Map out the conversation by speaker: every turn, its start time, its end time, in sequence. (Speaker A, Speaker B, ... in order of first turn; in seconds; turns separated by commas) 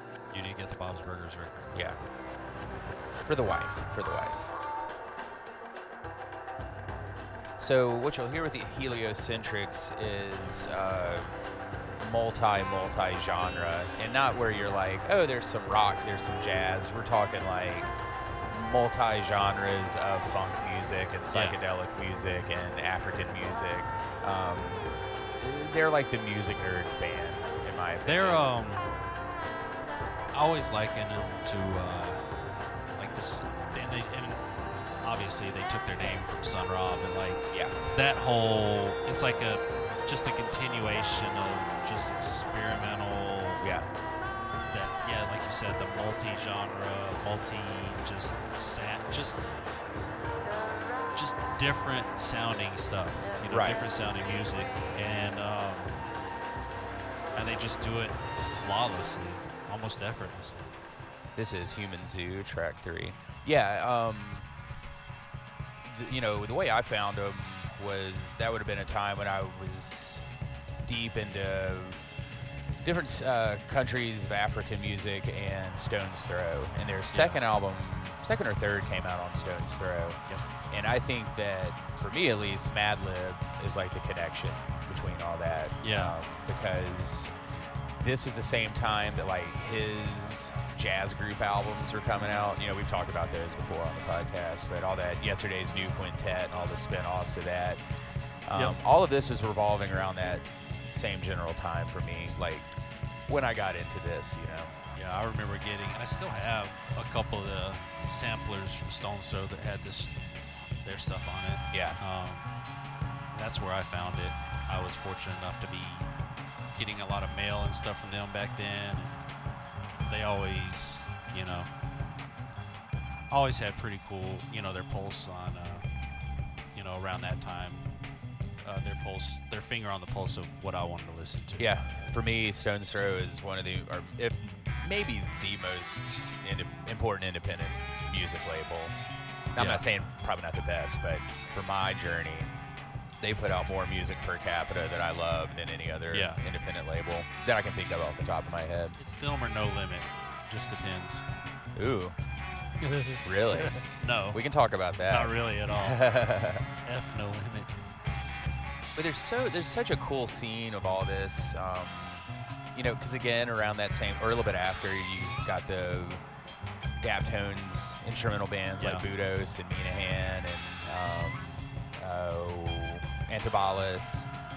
Speaker A: 0.3-1.8, Speaker B: 1.7-2.0, Speaker B: 3.2-4.5, Speaker B: 7.6-11.4, Speaker B: 12.0-17.9, Speaker B: 18.5-28.4, Speaker A: 21.3-21.6, Speaker A: 28.1-28.9, Speaker A: 30.3-32.2, Speaker A: 33.0-43.7, Speaker B: 43.6-43.9, Speaker A: 44.7-49.5, Speaker A: 51.1-56.1, Speaker B: 53.4-53.9, Speaker A: 57.4-60.7, Speaker B: 61.4-64.5, Speaker B: 65.8-70.3, Speaker B: 70.8-72.0, Speaker B: 72.8-87.3, Speaker A: 77.1-77.4, Speaker A: 85.8-86.2, Speaker B: 88.0-97.8, Speaker B: 98.5-102.7, Speaker A: 98.5-98.8, Speaker B: 103.3-104.8, Speaker A: 105.0-110.3, Speaker A: 110.8-112.5, Speaker B: 111.7-112.0, Speaker A: 113.3-116.1, Speaker A: 116.7-119.2, Speaker A: 120.1-121.7, Speaker A: 123.3-125.9, Speaker A: 126.7-127.9, Speaker A: 128.6-131.7, Speaker B: 131.6-139.0, Speaker B: 139.5-142.5, Speaker A: 139.6-139.8, Speaker B: 143.2-149.0, Speaker A: 146.1-146.4, Speaker A: 149.0-151.2, Speaker B: 151.8-152.2, Speaker A: 152.8-154.4, Speaker B: 153.2-156.7, Speaker A: 155.1-156.2, Speaker A: 156.8-157.7, Speaker B: 159.0-166.2, Speaker B: 167.0-174.3, Speaker A: 168.8-169.1